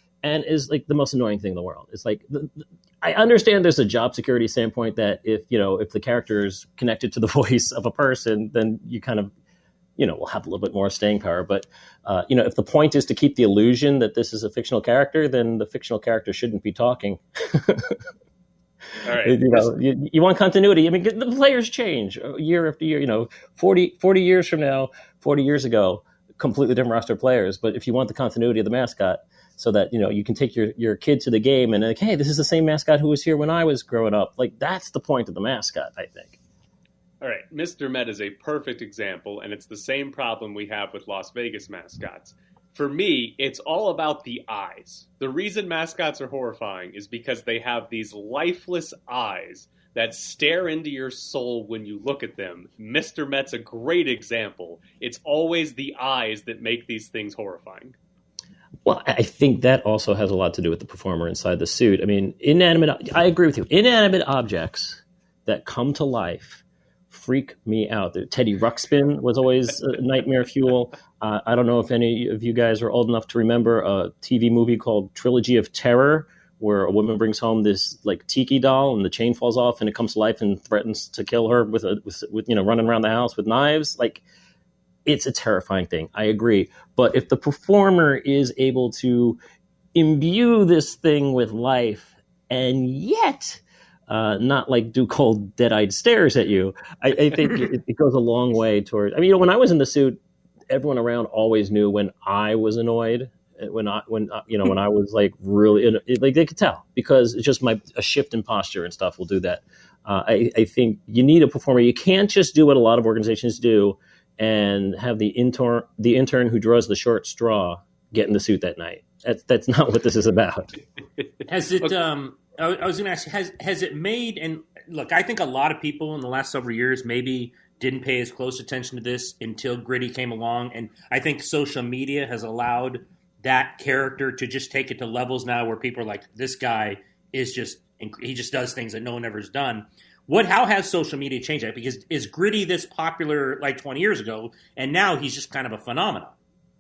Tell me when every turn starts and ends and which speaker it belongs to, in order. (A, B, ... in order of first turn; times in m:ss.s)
0:00.2-0:09.3 A
0:10.0-0:18.0 A
0:19.0-0:19.7 B
0:19.2-0:36.4 A
0:37.2-0:58.0 B
0:58.8-1:24.2 A
1:25.0-1:29.4 A
1:29.9-1:40.2 A
1:40.7-2:00.8 A
2:01.5-2:26.3 C